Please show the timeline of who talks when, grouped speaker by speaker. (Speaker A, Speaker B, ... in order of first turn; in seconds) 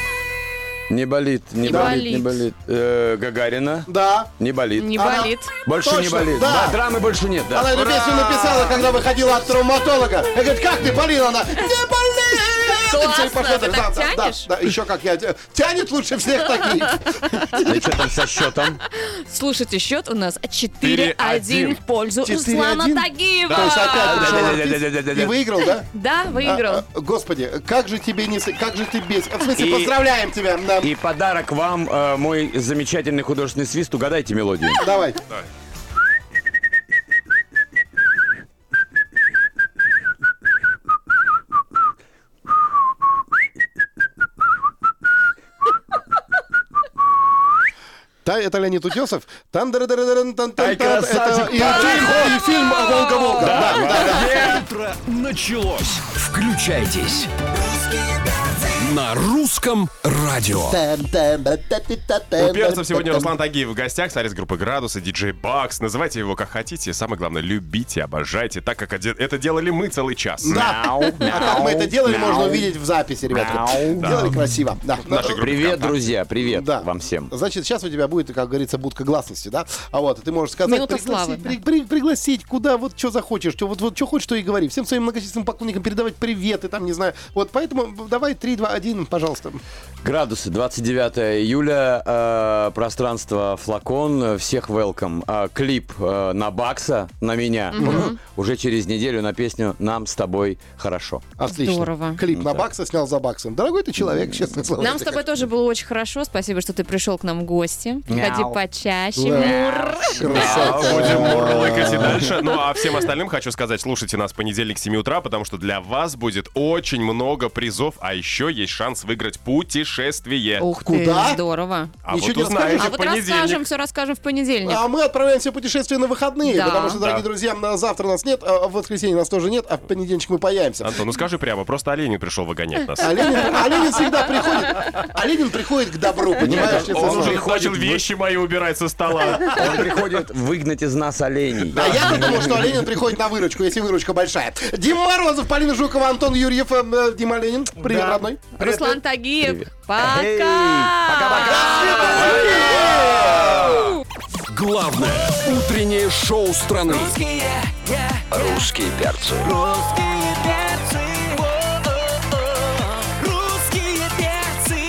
Speaker A: 0.9-5.1, 5.6-8.2, 17.6-18.8, 23.5-25.4, 29.6-29.9, 30.8-34.9, 50.6-52.4, 53.4-54.6, 70.5-72.7, 73.2-74.3, 75.2-77.3, 90.0-101.2, 102.3-102.6, 108.1-108.6, 109.3-112.3, 136.4-138.0, 139.4-142.7, 147.8-153.4
Speaker B: 1.6-2.5, 4.8-5.5, 12.8-14.5, 18.9-24.6, 25.9-26.8, 52.5-54.2, 80.6-81.5, 97.7-98.2, 101.5-102.2, 104.8-111.2, 120.6-121.9, 122.8-124.8, 126.5-127.0, 148.6-153.1
Speaker C: 1.7-2.0, 3.9-4.3, 5.0-6.8, 7.5-17.9, 22.2-25.9, 26.4-30.9, 34.8-35.2, 48.2-54.5, 60.7-63.3, 70.4-75.5, 76.4-89.6, 97.8-98.1, 101.4-105.2, 109.2-109.5, 110.2-112.2, 120.8-121.4, 122.1-122.9, 124.6-131.0, 133.0-137.5, 141.7-148.5, 151.4-152.7
Speaker D: 20.8-21.8, 23.5-23.8, 62.4-70.7, 74.0-74.3, 75.0-76.0, 110.2-120.7, 122.0-123.6, 130.8-133.9, 136.4-139.8
Speaker E: 54.2-57.3, 58.8-60.8, 152.2-153.9, 154.5-161.5, 163.2-164.6